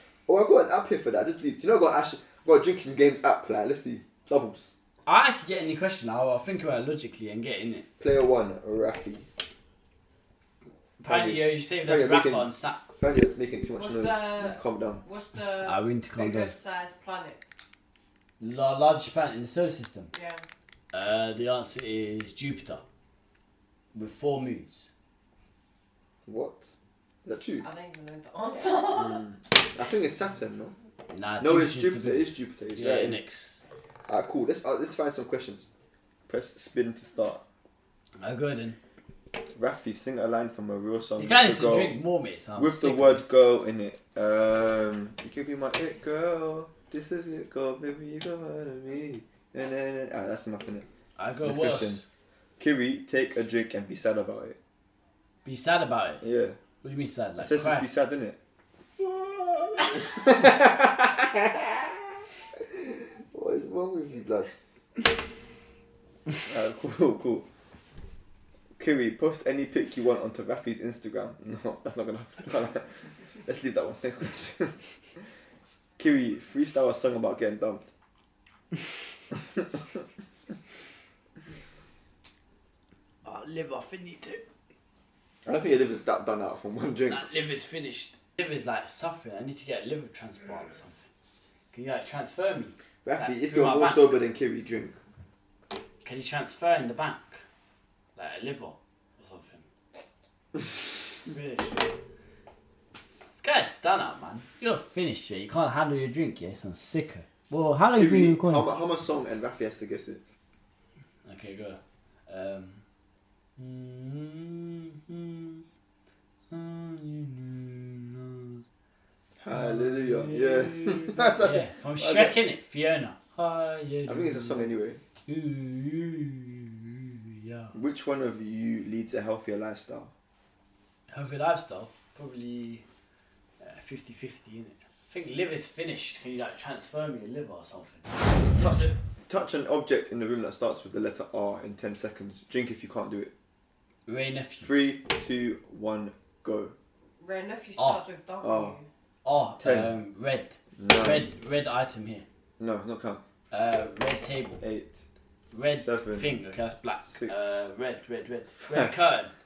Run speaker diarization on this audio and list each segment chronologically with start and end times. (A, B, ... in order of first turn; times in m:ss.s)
0:00.3-0:04.7 A
0:05.0-0:07.8 B
0:08.0-0:09.3 A
0:11.0-0:12.8 B
0:11.0-0:15.0 A
0:13.7-0:17.4 C
0:15.6-0:16.5 B
0:18.4-0:20.1 B
0:20.1-0:20.4 C
0:20.9-0:22.8 B
0:23.9-0:24.9 B
0:26.2-0:27.6 A
0:27.6-0:29.2 C
0:28.9-0:30.7 A
0:31.1-0:33.6 B
0:31.4-0:33.2 A
0:34.1-0:35.7 A
0:36.3-0:37.4 A
0:38.2-0:38.8 B
0:39.5-0:42.0 A
0:41.2-0:43.2 B
0:42.6-0:50.8 A
0:51.2-0:52.0 B
0:51.4-0:52.0 A
0:52.6-0:54.6 A
0:55.4-0:56.2 B
0:56.2-0:56.6 A
0:56.8-0:57.9 B
0:57.4-0:58.4 A
0:59.0-1:02.0 A
1:02.6-1:04.5 A
1:06.4-1:07.4 A
1:08.8-1:14.8 A
1:16.0-1:17.9 A
1:23.2-1:24.4 B
1:25.4-1:27.2 A
1:27.1-1:31.0 B
1:31.7-1:34.1 B
1:33.0-1:35.0 A
1:36.0-1:37.4 B
1:38.2-1:39.6 B
1:41.2-1:41.9 B
1:43.4-1:48.7 B
1:48.0-1:50.2 A
1:51.2-1:52.8 B
1:53.6-1:55.6 B
1:56.5-1:58.6 B
1:59.4-2:02.3 A
1:59.5-2:04.7 B
2:04.1-2:05.0 A
2:05.2-2:07.7 B
2:07.7-2:10.1 A
2:11.1-2:12.8 B
2:13.6-2:18.9 B
2:18.6-2:23.3 A
2:24.1-2:24.7 B
2:24.6-2:26.7 A
2:27.2-2:28.9 C
2:28.4-2:28.8 A
2:29.2-2:32.2 B
2:29.6-2:29.9 A
2:30.8-2:31.3 A
2:32.6-2:33.2 A
2:33.5-2:34.6 B
2:34.6-2:35.0 A
2:35.5-2:39.3 B
2:35.7-2:36.3 A
2:37.0-2:37.7 A
2:38.6-2:38.9 A